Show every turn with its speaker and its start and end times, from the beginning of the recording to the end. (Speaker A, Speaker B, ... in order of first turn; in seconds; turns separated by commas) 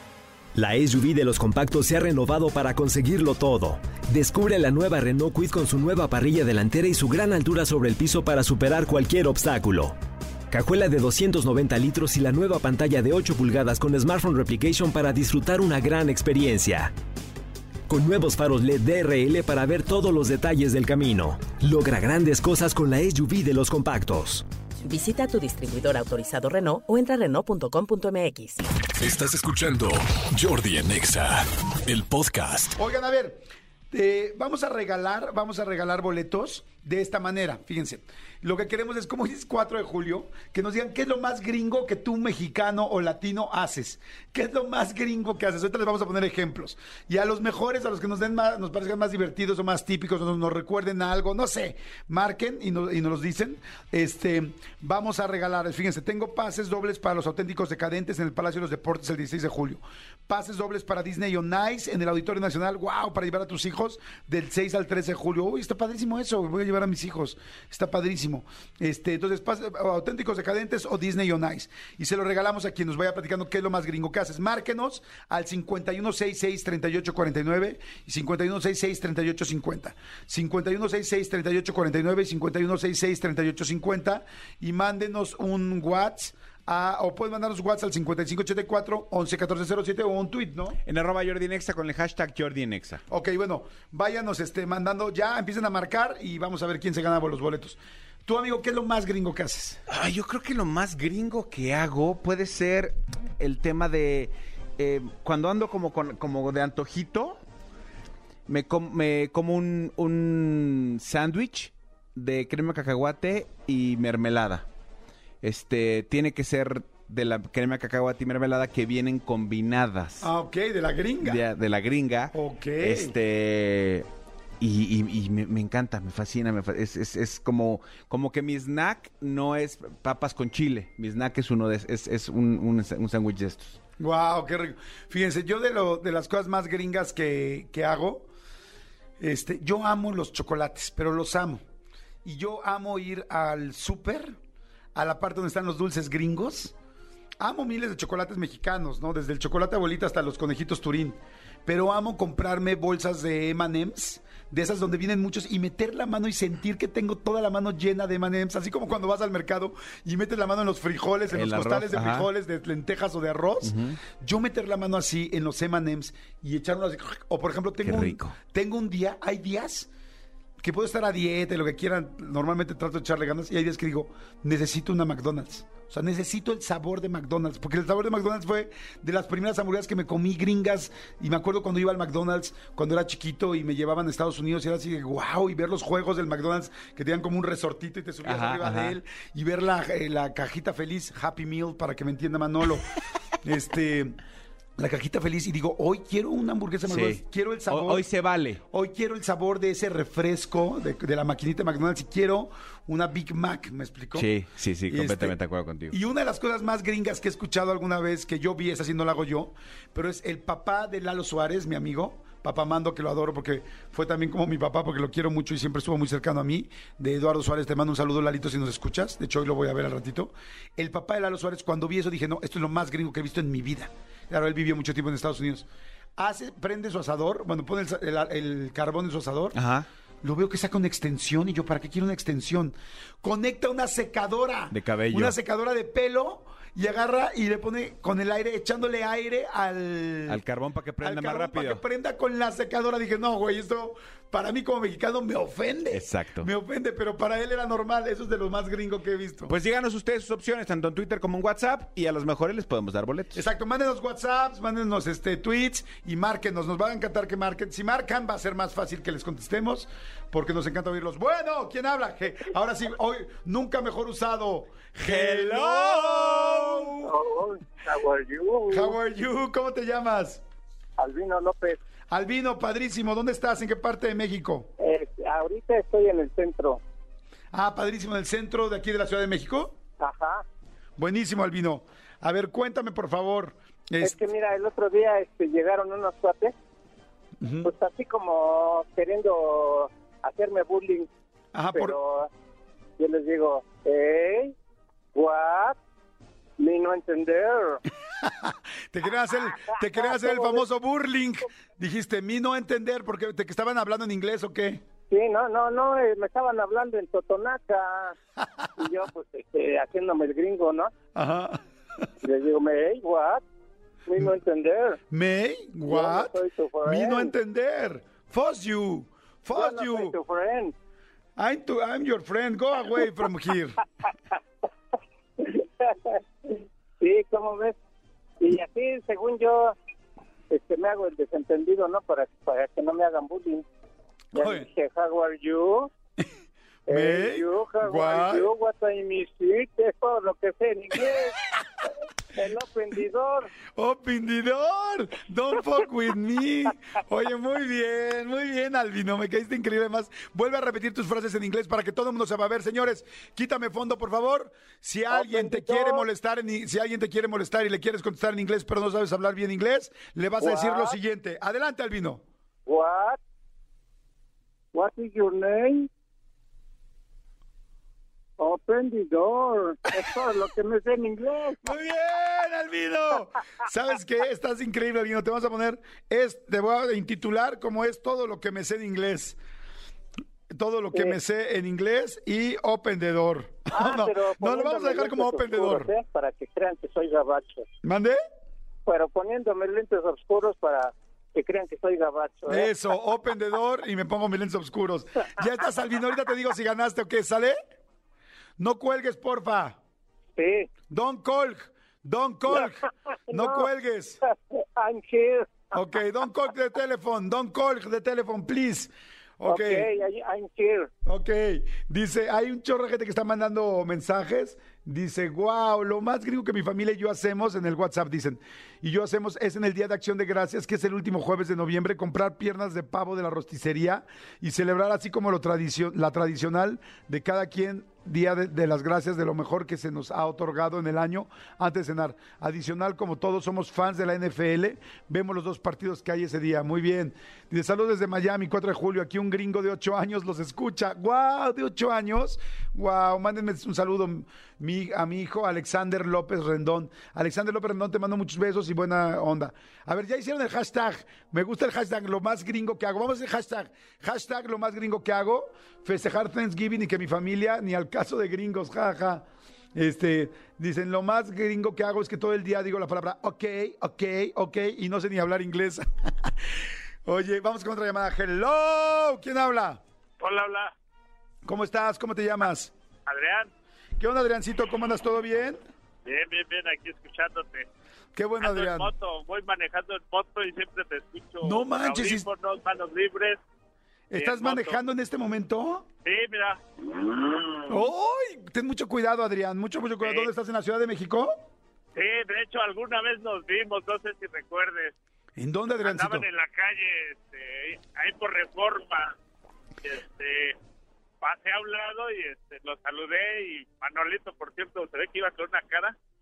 Speaker A: 0.5-9.9, Speaker A: 10.5-16.9, Speaker A: 17.9-24.4, Speaker B: 24.8-28.6, Speaker C: 29.0-32.8, Speaker D: 32.8-90.8, Speaker E: 90.8-93.0, Speaker D: 93.1-99.8, Speaker E: 99.9-107.4, Speaker E: 108.5-114.6, Speaker E: 115.4-120.3, Speaker D: 120.2-121.4, Speaker E: 121.2-124.0, Speaker D: 122.3-123.1, Speaker E: 124.6-133.8, Speaker D: 134.0-138.3, Speaker D: 139.2-141.6, Speaker D: 142.2-144.3, Speaker D: 144.9-146.7, Speaker D: 147.4-169.9, Speaker E: 161.3-162.3, Speaker E: 163.6-164.0, Speaker E: 167.8-168.3, Speaker D: 170.6-194.2, Speaker E: 188.2-189.0, Speaker D: 194.8-198.1, Speaker E: 196.8-198.6, Speaker D: 198.7-204.3, Speaker E: 204.1-206.0, Speaker D: 204.9-205.3, Speaker D: 205.9-225.7, Speaker D: 226.2-229.6, Speaker E: 229.5-229.8, Speaker D: 230.2-240.4, Speaker E: 234.7-235.3, Speaker E: 240.3-241.8, Speaker D: 241.0-249.5, Speaker E: 245.9-246.5, Speaker E: 249.5-253.4, Speaker D: 253.3-267.1, Speaker E: 265.0-266.8, Speaker F: 267.0-268.9, Speaker D: 268.7-270.4, Speaker F: 271.0-271.8, Speaker D: 272.1-274.7, Speaker F: 274.8-276.8, Speaker D: 277.5-279.8, Speaker F: 280.0-280.4, Speaker D: 281.0-284.2, Speaker F: 284.0-286.5, Speaker D: 287.4-287.7, Speaker F: 287.6-291.1, Speaker D: 291.5-292.0, Speaker F: 291.7-292.3, Speaker F: 293.0-294.5, Speaker F: 295.1-295.8, Speaker F: 296.6-297.8, Speaker D: 298.2-304.8, Speaker F: 299.3-300.6, Speaker F: 305.1-308.1, Speaker D: 308.4-308.7, Speaker F: 308.8-310.9, Speaker D: 311.1-312.0, Speaker F: 312.2-313.4, Speaker F: 314.1-315.0, Speaker D: 315.1-320.1, Speaker F: 315.9-317.3, Speaker F: 319.5-320.7, Speaker D: 321.4-323.8, Speaker F: 325.4-327.8, Speaker F: 328.4-329.8, Speaker F: 330.5-333.6, Speaker F: 334.3-335.9, Speaker D: 334.3-334.6, Speaker D: 336.9-338.5, Speaker F: 336.9-341.4, Speaker F: 342.3-343.5, Speaker D: 343.7-362.2, Speaker F: 355.1-356.1, Speaker F: 360.4-360.9, Speaker F: 362.6-363.2, Speaker F: 364.7-365.9, Speaker F: 368.4-371.6, Speaker D: 371.6-379.4, Speaker D: 380.5-385.9, Speaker F: 383.7-387.7, Speaker D: 387.8-388.2, Speaker F: 388.9-392.7, Speaker D: 392.5-397.6, Speaker D: 398.6-399.8, Speaker F: 400.4-400.7, Speaker D: 400.9-404.2, Speaker F: 403.3-403.7, Speaker F: 404.2-405.8, Speaker D: 405.7-409.9, Speaker F: 409.4-410.9, Speaker D: 411.1-466.3, Speaker D: 467.0-469.8, Speaker G: 470.2-470.7, Speaker D: 471.4-472.7, Speaker G: 473.1-473.5, Speaker D: 474.0-475.6, Speaker G: 476.0-477.7, Speaker D: 478.1-478.9, Speaker G: 478.4-483.4, Speaker D: 481.4-482.3, Speaker D: 484.1-485.9, Speaker G: 484.1-484.8, Speaker G: 486.0-487.6, Speaker D: 487.7-491.4, Speaker G: 490.0-490.3, Speaker G: 491.9-494.9, Speaker D: 495.4-496.3, Speaker G: 495.8-499.1, Speaker G: 499.8-500.6, Speaker G: 501.2-505.9